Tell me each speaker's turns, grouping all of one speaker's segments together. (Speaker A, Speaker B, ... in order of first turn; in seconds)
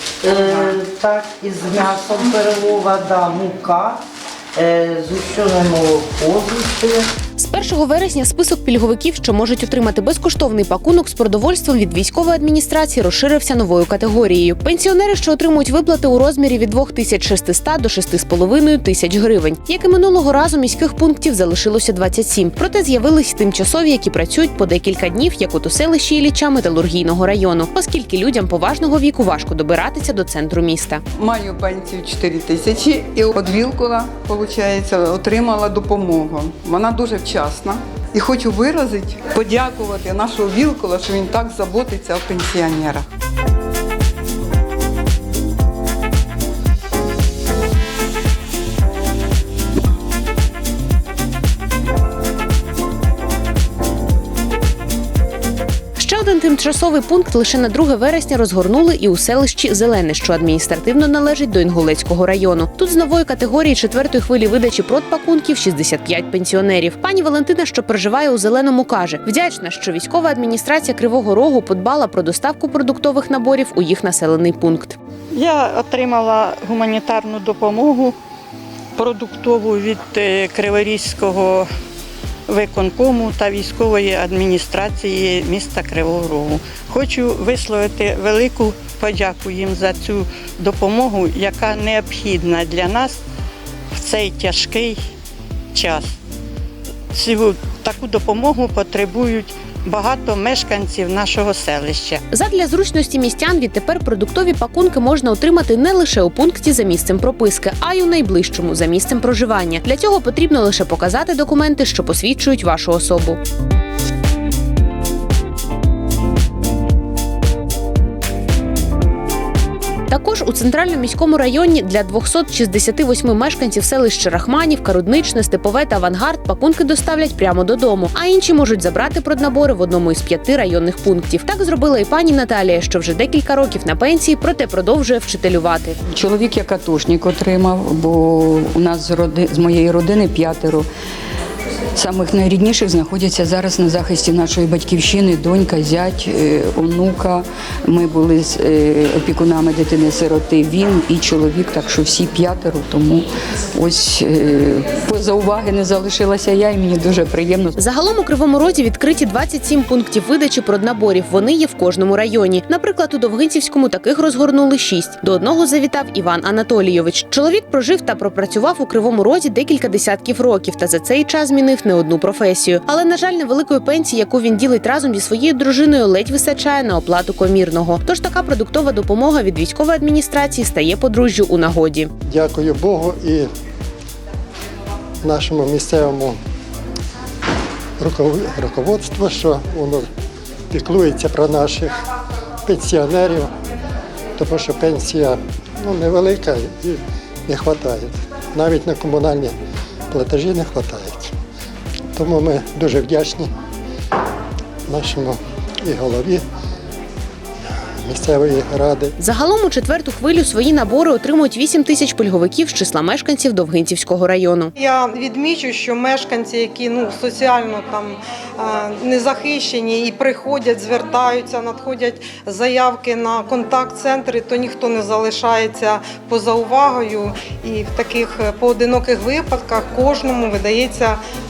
Speaker A: 0.2-4.0, 4.5-7.1
Speaker B: 7.4-31.0, 56.0-75.0, 102.3-113.4, 120.1-136.0, 157.8-182.1, 209.2-214.7
Speaker C: 31.2-43.1
Speaker D: 75.3-78.2, 79.0-81.7, 82.5-93.2, 93.9-95.0, 95.7-96.2, 97.1-102.2
Speaker E: 136.1-140.9, 141.9-157.8
Speaker F: 182.3-183.5, 185.2-186.4, 188.0-190.1, 190.7-191.9, 192.7-193.5, 194.4-199.6, 200.1-201.3, 202.2-203.5, 204.9-206.4, 208.0-209.1
Speaker G: 214.8-231.2